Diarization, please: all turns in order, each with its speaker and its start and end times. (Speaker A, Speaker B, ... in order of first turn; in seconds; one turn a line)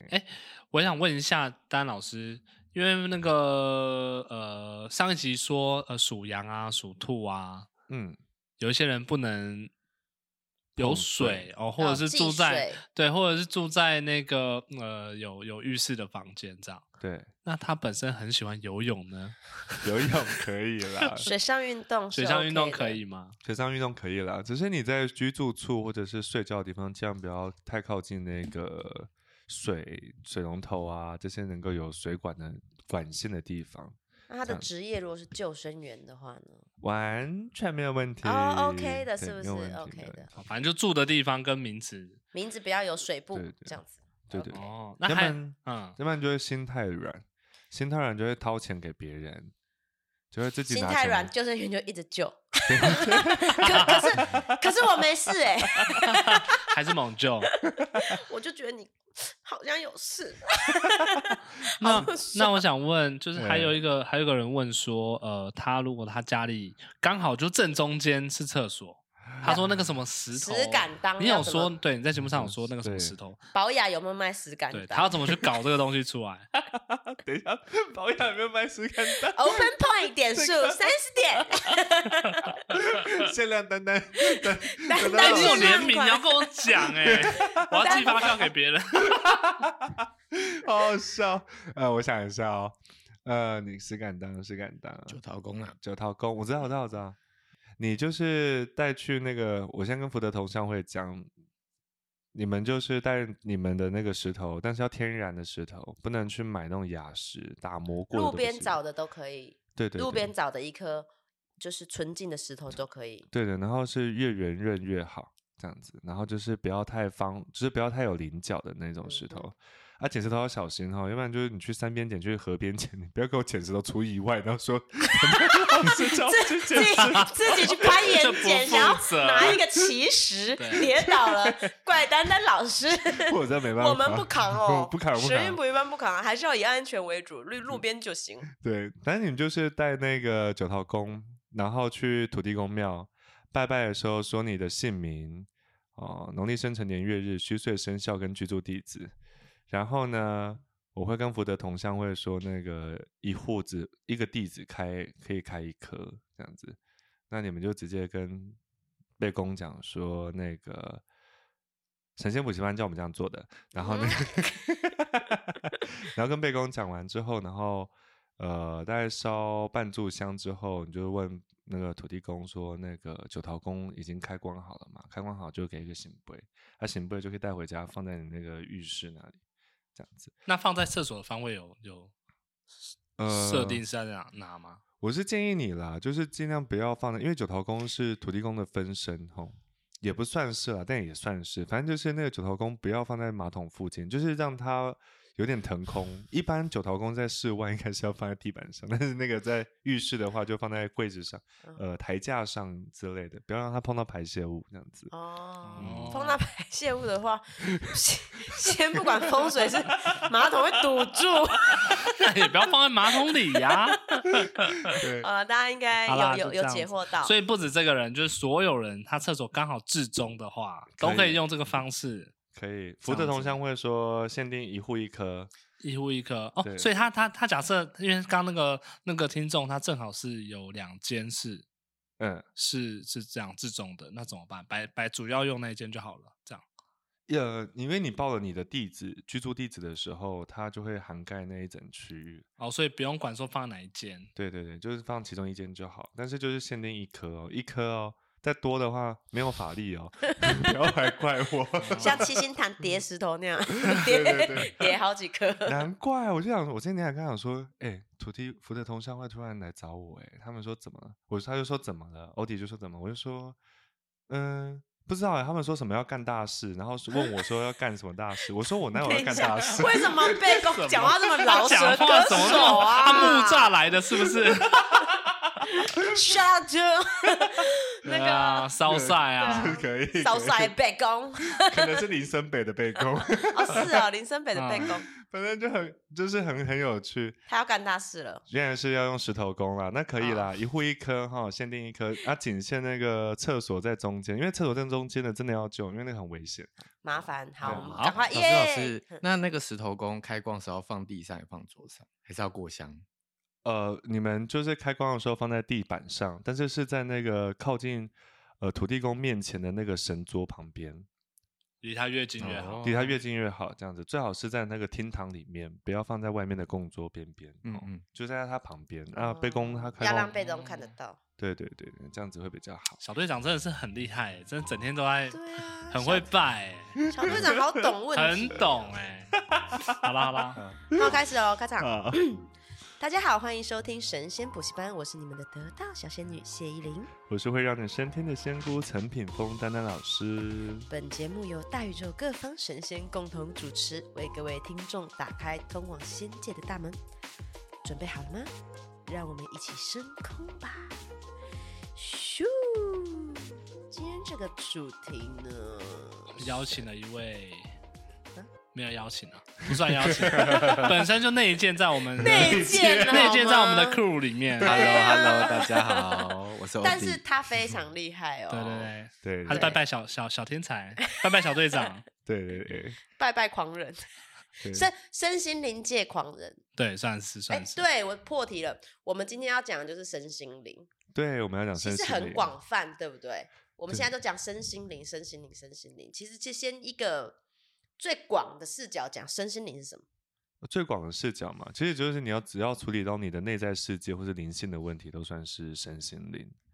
Speaker A: 0.1-7.7
Speaker B: 7.9-8.2
Speaker A: 8.6-9.7
Speaker A: 10.8-16.8
Speaker B: 10.8-11.5
Speaker C: 11.8-12.8
Speaker B: 17.0-17.3
Speaker A: 17.4-19.9
Speaker B: 19.8-21.3
Speaker C: 21.2-23.0
Speaker A: 22.1-23.3
Speaker B: 23.4-34.7
Speaker C: 34.3-36.7
Speaker B: 36.8-40.3
Speaker C: 38.2-40.3
Speaker A: 40.3-42.2
Speaker C: 42.3-44.5
Speaker B: 43.3-43.8
Speaker B: 44.3-49.5
Speaker A: 44.4-46.0
Speaker B: 50.3-51.3
Speaker C: 50.7-56.6
Speaker B: 52.7-54.6
Speaker A: 53.6-54.2
Speaker A: 56.0-57.5
Speaker B: 57.8-58.1
Speaker C: 57.9-62.6
Speaker A: 61.8-73.4
Speaker B: 63.4-63.8
Speaker B: 69.4-69.6
Speaker C: 70.3-71.7
Speaker B: 72.2-73.2
Speaker C: 73.5-75.4
Speaker A: 74.7-76.5
Speaker B: 76.7-79.7
Speaker C: 79.3-82.6
Speaker B: 80.3-80.7
Speaker B: 82.7-85.9
Speaker C: 84.2-86.7
Speaker A: 85.2-89.3
Speaker B: 86.8-88.5
Speaker C: 87.3-88.3
Speaker B: 89.0-95.2
Speaker D: 95.1-95.8
Speaker B: 95.8-97.2
Speaker B: 97.8-101.3
Speaker B: 102.3-108.8
Speaker C: 108.1-111.1
Speaker B: 109.8-110.3
Speaker C: 111.6-113.3
Speaker B: 113.3-128.2
Speaker C: 119.0-119.5
Speaker C: 125.1-138.5
Speaker A: 127.8-129.6
Speaker B: 129.4-129.9
Speaker A: 130.6-130.9
Speaker B: 130.7-131.7
Speaker B: 133.2-135.6
Speaker B: 138.5-149.1
Speaker B: 149.7-156.8
Speaker B: 157.3-158.6
Speaker B: 159.2-161.0
Speaker B: 162.2-179.4
Speaker C: 163.8-164.5
Speaker B: 179.9-180.3
Speaker A: 180.4-182.1
Speaker B: 183.2-183.8
Speaker A: 183.3-184.8
Speaker B: 185.0-205.1
Speaker C: 205.1-212.0
Speaker A: 205.7-206.4
Speaker B: 205.8-206.2
Speaker A: 212.0-214.5
Speaker C: 214.8-217.3
Speaker B: 214.9-215.3
Speaker A: 216.1-222.3
Speaker B: 221.0-221.4
Speaker B: 222.5-225.5
Speaker A: 223.1-223.6
Speaker A: 225.8-231.6
Speaker B: 226.6-226.9
Speaker B: 232.2-232.4
Speaker A: 232.6-236.6
Speaker B: 237.3-242.4
Speaker A: 242.6-244.3
Speaker B: 244.3-252.3
Speaker C: 250.4-250.7
Speaker A: 251.8-252.2
Speaker C: 252.0-255.8
Speaker B: 253.8-254.9
Speaker B: 255.7-263.6
Speaker B: 264.3-270.6
Speaker C: 268.9-273.7
Speaker A: 270.5-274.8
Speaker B: 272.3-273.1
Speaker B: 274.8-276.2
Speaker C: 275.7-278.7
Speaker A: 278.0-279.8
Speaker B: 278.8-280.7
Speaker C: 279.4-282.0
Speaker B: 281.5-283.9
Speaker C: 283.4-285.1
Speaker A: 284.5-284.9
Speaker B: 284.8-287.4
Speaker C: 287.5-288.4
Speaker B: 288.5-297.9
Speaker C: 290.2-290.4
Speaker C: 297.0-299.2
Speaker A: 297.7-298.1
Speaker D: 297.7-303.0
Speaker B: 303.6-311.1
Speaker A: 311.8-313.1
Speaker D: 312.4-312.9
Speaker B: 312.8-320.3
Speaker D: 317.6-318.0
Speaker C: 319.1-321.2
Speaker A: 320.3-320.9
Speaker B: 321.4-323.0
Speaker A: 323.0-327.4
Speaker C: 325.3-326.3
Speaker C: 327.1-328.9
Speaker B: 327.1-327.5
Speaker A: 328.1-329.3
Speaker B: 329.4-330.0
Speaker A: 329.9-330.6
Speaker B: 330.6-331.1
Speaker C: 330.9-332.5
Speaker B: 331.8-332.2
Speaker C: 333.0-337.1
Speaker B: 337.3-340.9
Speaker C: 340.9-347.0
Speaker C: 347.8-348.5
Speaker C: 349.1-351.0
Speaker C: 351.9-356.4
Speaker A: 356.4-357.7
Speaker A: 358.7-365.2
Speaker B: 359.7-361.0
Speaker B: 362.2-363.4
Speaker C: 362.2-364.0
Speaker D: 364.6-367.2
Speaker C: 364.6-366.2
Speaker C: 366.8-368.9
Speaker A: 368.5-372.0
Speaker B: 369.2-369.8
Speaker C: 369.5-369.8
Speaker C: 371.2-371.9
Speaker B: 372.2-373.0
Speaker C: 373.1-374.0
Speaker B: 374.6-374.9
Speaker C: 374.7-376.6
Speaker A: 376.8-377.8
Speaker C: 377.5-380.9
Speaker B: 381.1-382.5
Speaker C: 381.8-387.4
Speaker C: 388.0-390.0
Speaker B: 390.6-396.5